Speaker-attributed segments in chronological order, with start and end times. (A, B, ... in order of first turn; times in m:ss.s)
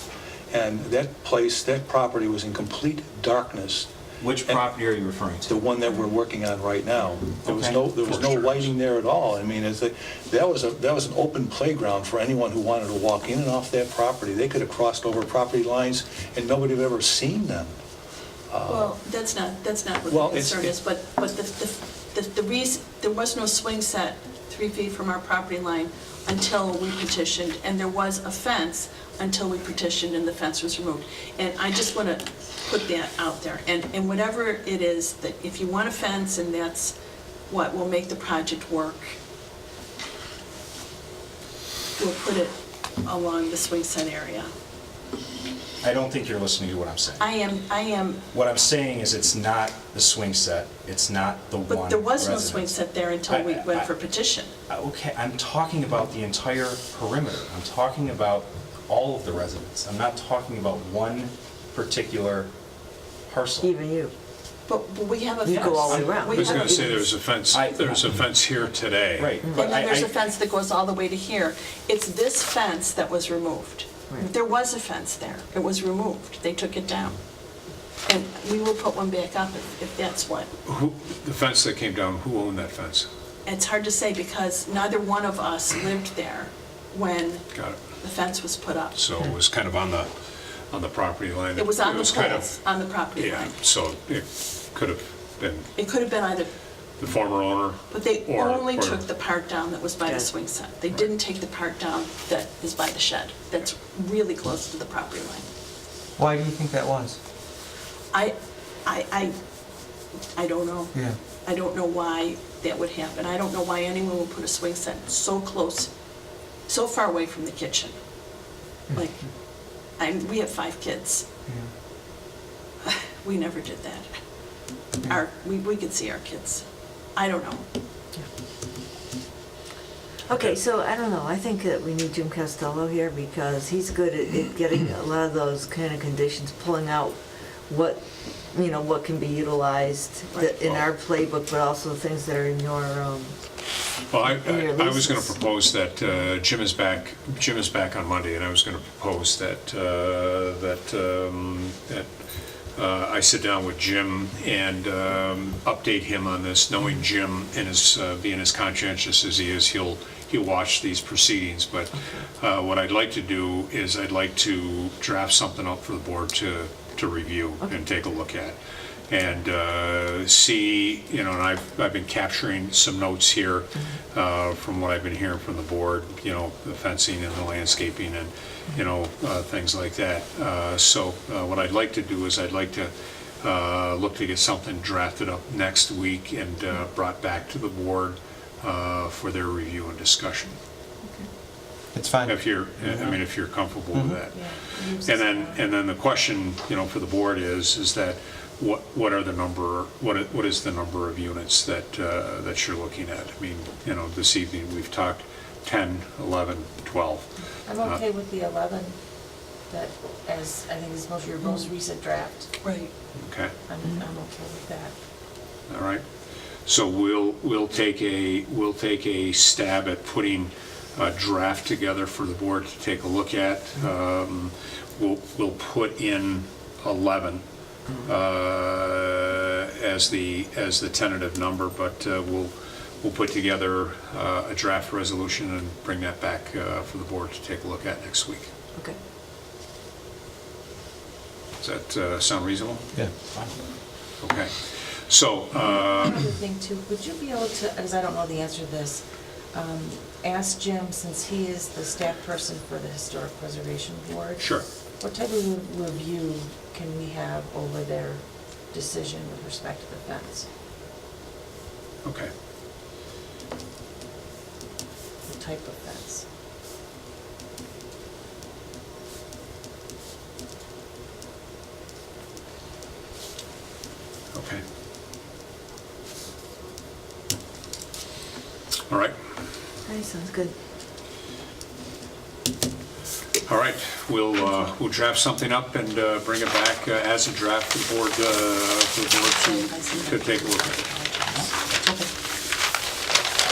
0:00.5-0:03.9 A
0:04.2-0:05.6 B
0:05.5-0:17.7 A
0:07.4-0:07.9 B
0:07.9-0:08.7 C
0:18.5-0:19.0 A
0:18.7-0:37.0 D
0:20.1-0:20.7 A
0:37.5-0:39.1 D
0:42.0-0:44.5 D
0:45.8-0:47.4 B
0:47.2-0:48.2 D
0:48.3-0:53.9 B
0:51.7-0:54.5 D
0:54.7-1:02.5 B
1:03.3-1:03.7 B
1:03.6-1:04.1 E
1:04.7-1:07.0 D
1:05.4-1:07.0 E
1:05.7-1:06.2 B
1:06.2-1:09.4 C
1:07.5-1:08.2 B
1:09.2-1:10.2 B
1:09.5-1:17.2 D
1:18.1-1:20.5 D
1:20.6-1:23.1 C
1:23.4-1:29.1 D
1:27.5-1:28.0 C
1:29.0-1:35.7 C
1:31.6-1:33.6 D
1:35.8-1:36.5 D
1:37.0-1:39.0 C
1:37.9-1:45.5 D
1:46.2-1:47.2 F
1:48.1-1:55.9 D
1:56.6-2:01.3 D
2:01.5-2:01.7 F
2:02.8-2:04.1 D
2:04.6-2:07.7 D
2:10.3-2:23.4 E
2:20.3-2:20.6 D
2:24.1-2:32.1 C
2:24.3-2:25.3 E
2:32.8-2:48.6 C
2:49.1-3:10.6 C
3:11.9-3:13.1 F
3:12.2-3:27.3 C
3:13.9-3:14.2 F
3:14.3-3:15.7 G
3:27.7-3:29.0 G
3:29.7-3:32.5 G
3:32.6-3:32.9 D
3:33.2-3:33.5 C
3:33.7-3:35.0 G
3:35.7-3:36.0 C
3:36.7-3:47.4 C
3:48.0-3:58.5 C
4:01.6-4:02.9 C
4:03.2-4:03.5 B
4:04.2-4:06.2 C
4:06.0-4:20.5 G
4:14.4-4:14.6 C
4:22.0-4:22.3 C
4:25.2-4:26.3 G
4:34.3-4:34.6 C
4:38.9-4:39.2 C
4:39.8-4:40.5 E
4:43.4-4:50.8 C
4:49.1-4:51.1 D